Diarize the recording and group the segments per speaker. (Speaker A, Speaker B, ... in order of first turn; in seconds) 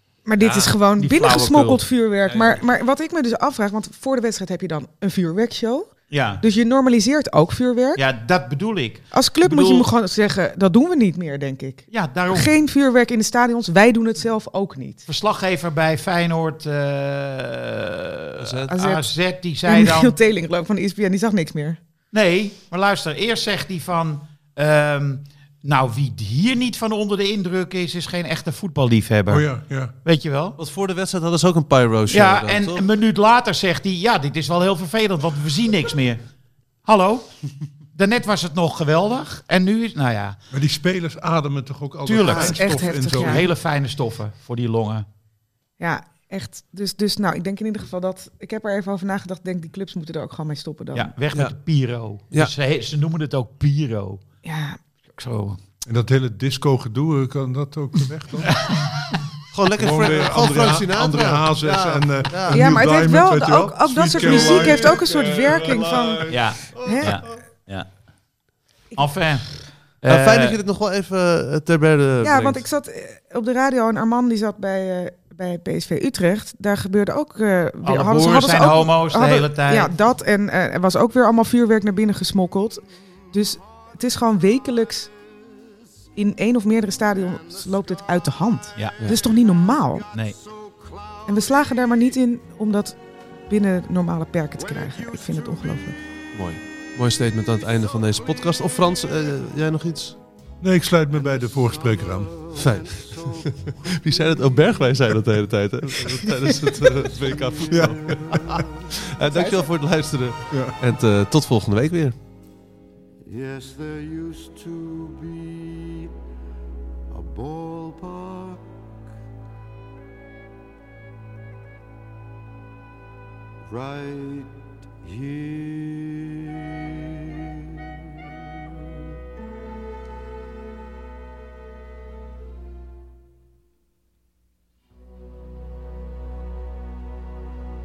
Speaker A: 0.3-8.0, 9.1-15.1, 18.7-19.1, 19.7-21.8, 42.5-43.5, 45.8-51.1, 54.4-54.8, 62.5-67.2, 72.2-85.1, 86.2-90.0, 91.3-96.0, 109.3-109.6
Speaker B: 0.4-0.7, 2.3-2.6, 18.4-18.7, 30.6-32.9, 59.5-62.7, 64.2-67.4, 70.1-72.6, 96.3-100.2, 102.5-112.2
Speaker C: 1.0-1.8, 6.1-6.4, 8.0-9.9, 11.9-12.5, 15.1-20.2, 22.1-30.6, 32.1-36.2, 36.9-37.3, 38.0-40.4, 42.1-45.1, 50.9-54.2, 55.2-55.6, 58.5-58.9, 66.3-67.9, 69.0-70.6, 77.8-79.9
Speaker D: 29.3-29.9, 40.5-43.5, 55.9-58.6, 59.8-66.3, 100.6-102.4, 107.7-108.6, 110.5-110.8
Speaker E: 90.5-91.2, 102.9-103.4, 108.2-108.7, 113.2-116.1, 117.1-118.6, 123.6-127.8